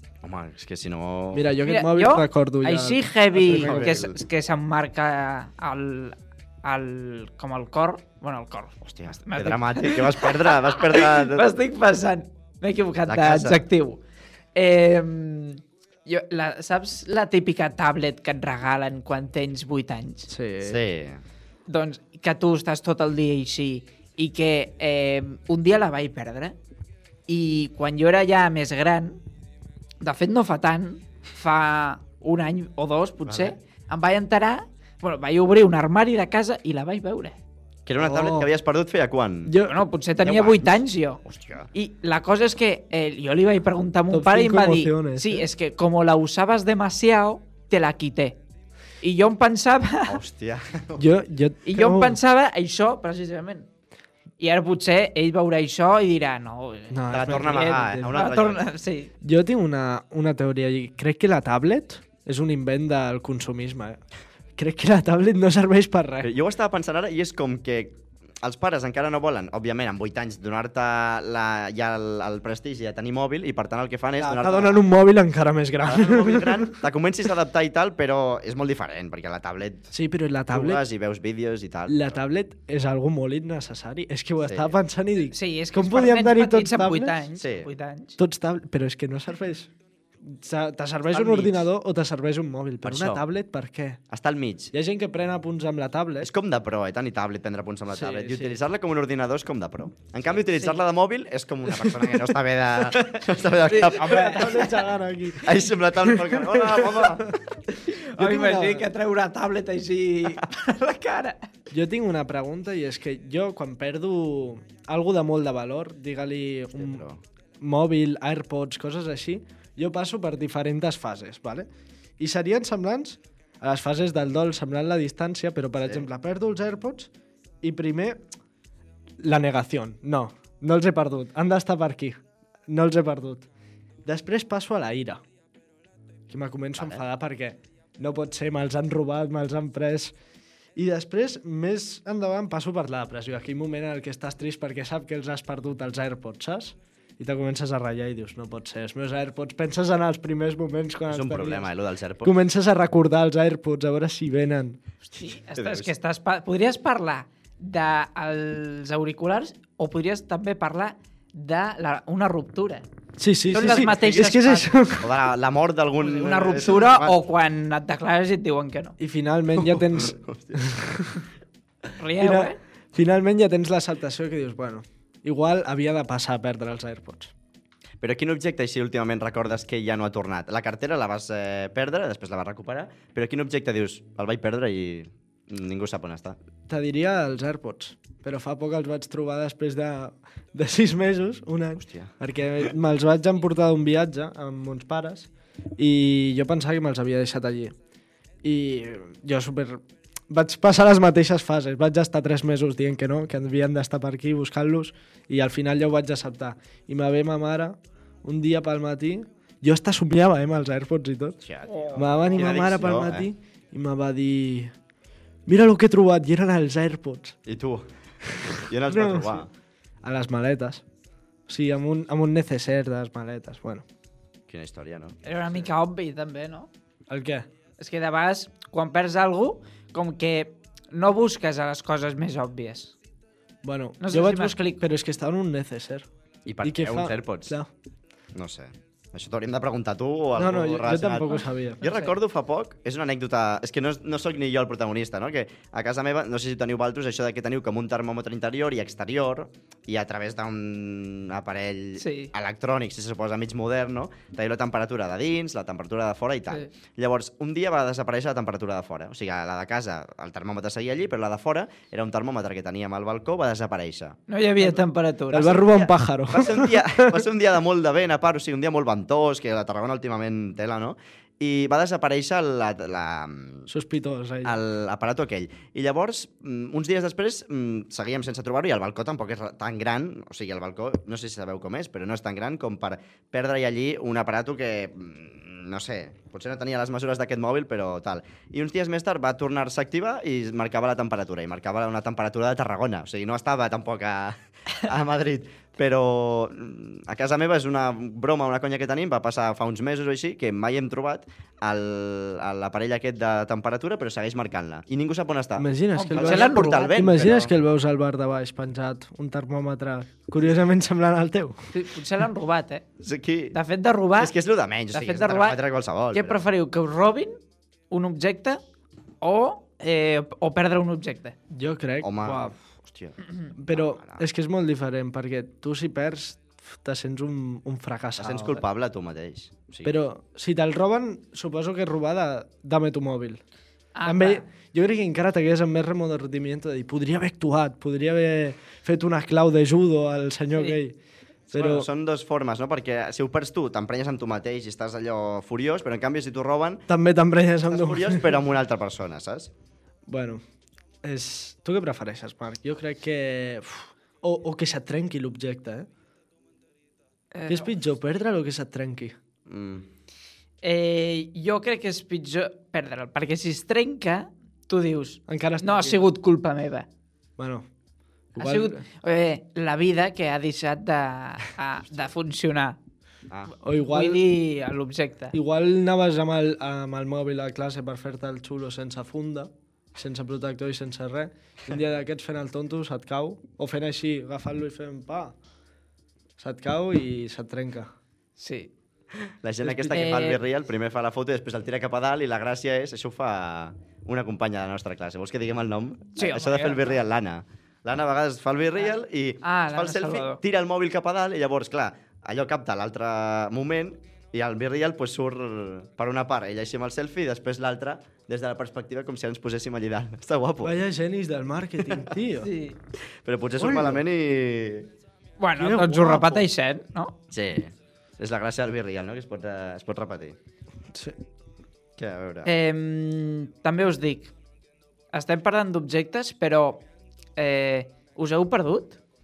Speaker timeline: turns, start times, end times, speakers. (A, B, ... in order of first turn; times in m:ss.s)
0:00.2-0:01.5 A
0:01.3-0:04.0 B
0:01.6-0:14.0 C
0:03.4-0:04.2 A
0:08.8-0:11.5 A
0:13.1-0:13.6 A
0:14.5-0:20.3 C
0:20.3-0:20.8 B
0:20.6-0:21.2 A
0:21.7-0:26.6 C
0:27.3-0:29.2 C
0:30.0-0:37.4 C
0:33.2-0:33.5 A
0:37.8-0:39.5 A
0:38.0-0:38.5 B
0:39.4-0:39.8 B
0:39.6-0:41.2 C
0:40.2-0:41.7 A
0:41.7-0:48.4 C
0:44.1-0:45.5 B
0:49.0-0:50.2 C
0:50.1-0:51.0 A
0:51.0-0:52.2 B
0:51.6-0:53.7 C
0:54.4-0:59.1 C
0:56.9-0:58.1 B
0:57.1-0:58.7 A
0:59.2-1:04.0 B
1:04.6-1:06.3 B
1:06.2-1:14.8 A
1:14.2-1:16.8 B
1:15.8-1:19.9 A
1:19.9-1:20.8 B
1:20.5-1:22.2 A
1:21.9-1:27.2 B
1:24.4-1:24.8 A
1:25.3-1:28.2 C
1:27.4-1:27.7 A
1:28.2-1:29.7 B
1:30.2-1:34.0 B
1:31.1-1:31.6 A
1:32.8-1:33.2 A
1:34.1-1:34.7 A
1:34.7-1:36.3 B
1:36.2-1:44.8 A
1:37.9-1:38.6 B
1:43.7-1:44.7 C
1:43.9-1:47.5 B
1:45.4-1:47.3 A
1:47.9-1:51.4 C
1:48.1-1:48.9 B
1:51.7-1:57.0 B
1:56.8-1:57.2 A
1:57.6-2:01.7 B
2:02.2-2:07.1 B
2:07.6-2:08.2 B
2:09.2-2:13.5 B
2:14.0-2:15.2 B
2:16.3-2:20.1 B
2:16.8-2:17.0 A
2:20.8-2:31.7 B
2:31.1-2:32.3 A
2:32.2-2:34.8 B
2:35.0-2:42.8 C
2:35.5-2:35.9 A
2:43.2-2:45.1 B
2:43.5-2:44.8 C
2:43.6-2:44.1 A
2:45.0-2:47.2 A
2:46.0-2:49.0 C
2:49.0-2:51.2 B
2:50.0-2:50.8 A
2:52.0-2:52.6 C
2:52.2-2:57.3 B
2:58.0-3:06.4 A
3:06.7-3:17.7 B
3:11.8-3:12.1 A
3:18.4-3:31.4 B
3:31.4-3:33.3 A
3:31.9-3:32.2 C
3:31.9-3:34.7 B
3:35.5-3:37.4 B
3:37.4-3:37.9 A
3:38.5-3:39.5 A
3:38.8-3:39.5 B
3:40.0-3:40.8 B
3:41.5-3:43.8 B
3:44.5-3:45.7 A
3:45.2-3:46.7 C
3:47.1-3:47.4 B
3:47.8-3:52.9 C
3:53.6-3:56.1 B
3:54.0-3:54.8 C
3:56.4-3:57.6 A
3:56.6-3:57.7 B
3:58.3-4:24.2 A
4:00.4-4:01.8 B
4:01.3-4:02.1 C
4:12.0-4:12.3 C
4:24.3-4:25.6 C
4:24.6-4:27.2 B
4:25.4-4:33.7 A
4:33.7-4:34.5 B
4:34.4-5:07.5 A
5:05.6-5:11.6 B
5:05.9-5:07.2 C
5:11.7-5:12.8 C
5:13.0-5:13.6 A
5:13.5-5:14.4 C
5:14.2-5:16.4 A
5:14.9-5:15.6 C
5:16.1-5:17.4 C
5:17.9-5:18.6 C
5:19.2-5:21.4 C
5:21.5-5:22.5 B
5:22.0-5:24.2 A
5:22.2-5:22.5 C
5:23.6-5:28.6 B
5:28.2-5:29.9 A
5:29.8-5:33.4 B
5:33.9-5:34.5 C
5:34.0-5:41.0 B
5:41.5-5:41.9 B
5:41.5-5:46.8 A
5:46.9-5:48.4 B
5:47.7-5:49.5 A
5:50.1-5:50.4 B
5:51.0-5:55.9 B
5:57.3-5:57.7 C
5:57.5-5:59.1 B
5:59.5-5:59.8 A
6:00.6-6:06.9 C
6:05.3-6:06.1 B
6:07.4-6:07.7 B
6:08.3-6:08.8 B
6:08.4-6:12.8 C
6:13.6-6:14.3 B
6:13.9-6:15.4 C
6:15.3-6:25.3 B
6:26.4-6:27.9 B
6:28.4-6:28.7 C
6:29.4-6:50.8 A
6:29.6-6:30.0 B
6:29.9-6:30.4 C
6:36.2-6:37.0 C
6:39.4-6:40.4 C
6:50.6-6:52.5 B
6:51.9-6:52.1 A
6:52.4-6:52.8 C
6:53.2-6:54.9 A
6:53.6-6:54.0 B
6:55.4-6:57.1 C
6:55.6-6:56.4 B
6:57.3-7:00.4 A
7:02.0-7:02.5 A
7:02.4-7:04.3 C
7:05.1-7:06.8 C
7:07.4-7:09.0 C